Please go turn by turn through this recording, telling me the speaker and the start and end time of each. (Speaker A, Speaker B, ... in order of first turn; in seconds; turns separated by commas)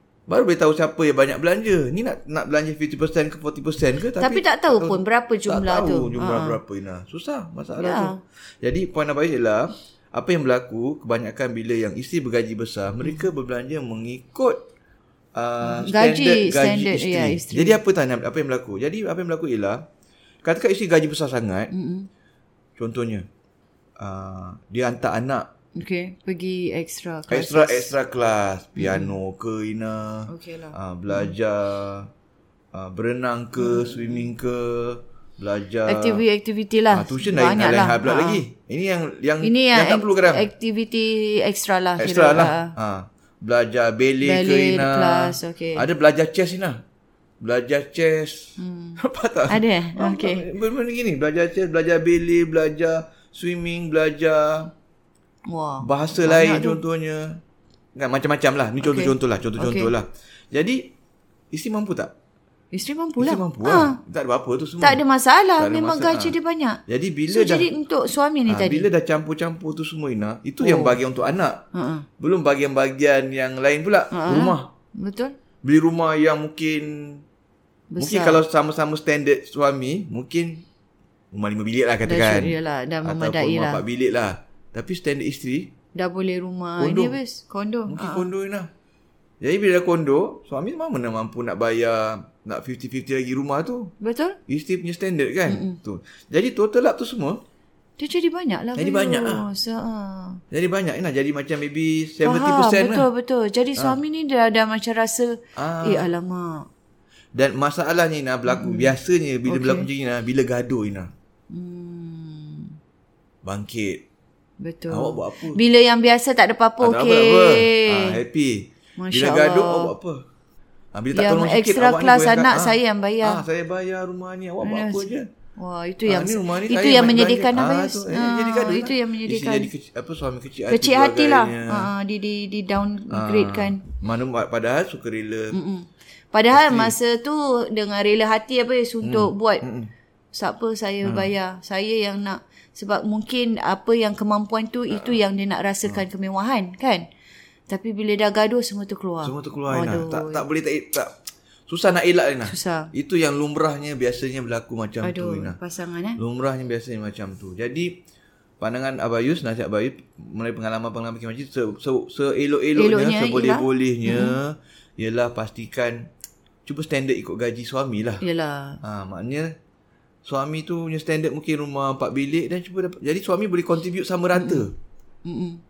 Speaker A: 0.3-14.6, Speaker B: 4.2-6.6, Speaker B: 7.8-8.2, Speaker A: 15.3-19.9, Speaker B: 15.6-17.8, Speaker A: 20.4-21.7, Speaker B: 21.7-22.1, Speaker A: 22.8-23.3, Speaker A: 24.0-25.5, Speaker B: 25.8-27.9, Speaker A: 27.3-32.1, Speaker B: 28.8-29.1, Speaker B: 30.3-31.3, Speaker A: 32.7-36.2, Speaker B: 33.6-34.3, Speaker B: 35.8-38.4, Speaker A: 36.9-40.5, Speaker B: 39.4-42.7, Speaker A: 42.0-46.8, Speaker B: 44.2-45.9, Speaker A: 47.4-54.7, Speaker B: 48.6-50.5, Speaker B: 55.5-56.8, Speaker A: 55.8-57.4, Speaker A: 58.0-60.9, Speaker B: 58.8-59.9, Speaker A: 61.5-62.1, Speaker B: 62.7-64.0, Speaker A: 63.2-65.0, Speaker B: 64.8-68.9, Speaker A: 65.6-66.3, Speaker A: 66.9-67.7, Speaker A: 68.5-71.7, Speaker B: 70.6-71.0, Speaker B: 71.7-72.0, Speaker A: 72.2-74.7, Speaker B: 74.1-75.3, Speaker A: 75.6-77.2, Speaker B: 77.9-78.4, Speaker A: 78.0-80.6, Speaker A: 81.3-85.7, Speaker B: 82.0-83.8, Speaker B: 86.0-88.3, Speaker A: 86.8-87.2, Speaker A: 87.9-88.7, Speaker A: 89.4-93.9, Speaker B: 94.0-94.4, Speaker A: 94.5-97.4, Speaker B: 95.5-95.8, Speaker B: 98.0-100.4, Speaker A: 98.8-99.5, Speaker A: 100.5-103.1, Speaker B: 102.2-106.7, Speaker A: 105.5-106.1, Speaker A: 107.3-111.1, Speaker B: 108.5-108.9, Speaker B: 109.5-109.9, Speaker B: 111.5-112.7, Speaker A: 113.4-114.0, Speaker B: 114.6-118.2, Speaker A: 114.9-115.6, Speaker A: 116.8-120.2, Speaker B: 119.0-119.9, Speaker A: 120.9-125.3, Speaker B: 121.1-123.4, Speaker B: 124.6-129.7, Speaker A: 126.0-131.9, Speaker B: 130.7-133.8, Speaker A: 133.1-135.6, Speaker B: 135.5-139.7, Speaker A: 136.5-136.9, Speaker A: 139.0-139.9, Speaker B: 140.3-147.1, Speaker A: 141.0-141.3, Speaker A: 144.9-145.2, Speaker B: 147.7-150.4, Speaker A: 149.2-155.6, Speaker B: 152.4-152.9, Speaker B: 155.0-156.2, Speaker A: 156.2-158.0, Speaker A: 158.6-166.1, Speaker B: 162.8-164.4, Speaker A: 166.7-168.2, Speaker B: 168.2-168.8, Speaker A: 168.8-169.5, Speaker A: 170.2-174.7, Speaker B: 174.3-174.7, Speaker B: 175.2-175.6